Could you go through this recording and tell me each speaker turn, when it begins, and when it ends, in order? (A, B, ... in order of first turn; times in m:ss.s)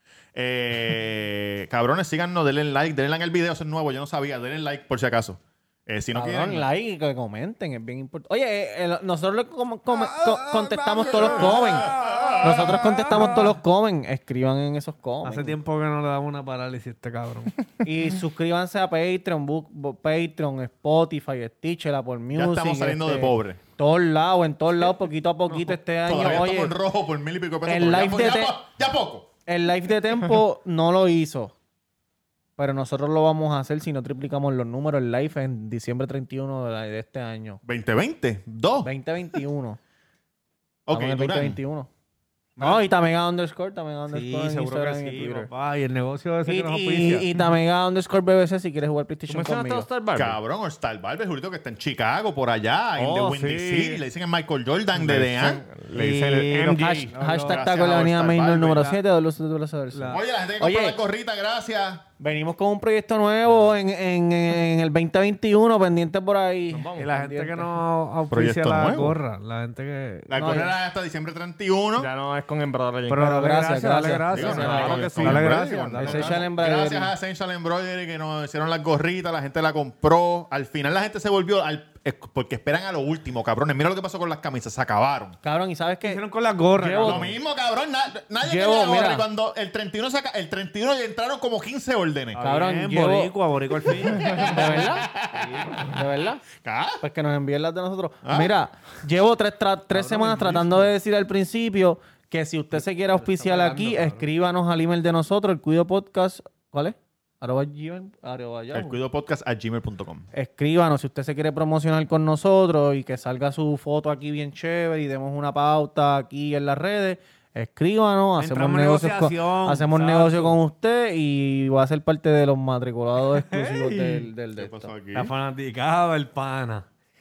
0:00.3-0:06.7 A
0:06.1-0:15.6 B
0:09.9-0:13.4 A
0:11.2-0:13.4 C
0:15.2-0:17.5 C
0:17.8-0:26.7 B
0:22.3-0:23.6 A
0:26.0-0:29.3 A
0:27.6-0:28.6 B
0:29.4-0:31.5 B
0:32.6-0:37.6 B
0:37.6-0:38.9 A
0:38.8-0:39.8 B
0:40.8-0:41.6 A
0:40.9-0:41.9 B
0:42.6-0:45.5 B
0:44.1-0:47.3 C
0:46.4-0:49.9 B
0:49.3-0:50.4 D
0:50.1-0:55.6 A
0:53.0-0:54.0 D
0:55.0-0:55.3 C
0:55.4-0:57.1 D
0:55.9-0:57.6 C
0:56.6-1:01.0 B
0:57.4-0:59.0 A
0:59.9-1:00.2 C
1:00.1-1:02.0 A
1:02.2-1:07.8 B
1:06.7-1:07.1 D
1:07.0-1:10.6 C
1:08.3-1:09.2 A
1:10.3-1:12.1 A
1:10.3-1:10.7 B
1:12.0-1:13.3 D
1:13.1-1:16.4 C
1:13.2-1:15.1 B
1:14.3-1:25.4 A
1:14.3-1:15.6 D
1:15.9-1:17.1 B
1:25.4-1:26.2 B
1:26.0-1:27.4 C
1:26.8-1:27.3 B
1:27.0-1:32.4 A
1:28.4-1:29.3 B
1:32.3-1:35.9 C
1:32.4-1:33.4 B
1:33.8-1:35.9 A
1:34.4-1:35.0 B
1:35.9-1:36.4 B
1:36.6-1:37.0 A
1:37.0-1:49.0 B
1:38.2-1:38.5 A
1:39.9-1:40.9 C
1:43.1-1:44.2 C
1:48.7-1:50.3 A
1:50.3-2:04.9 B
1:58.4-2:00.6 C
2:03.2-2:04.3 C
2:04.6-2:05.3 A
2:05.1-2:06.9 C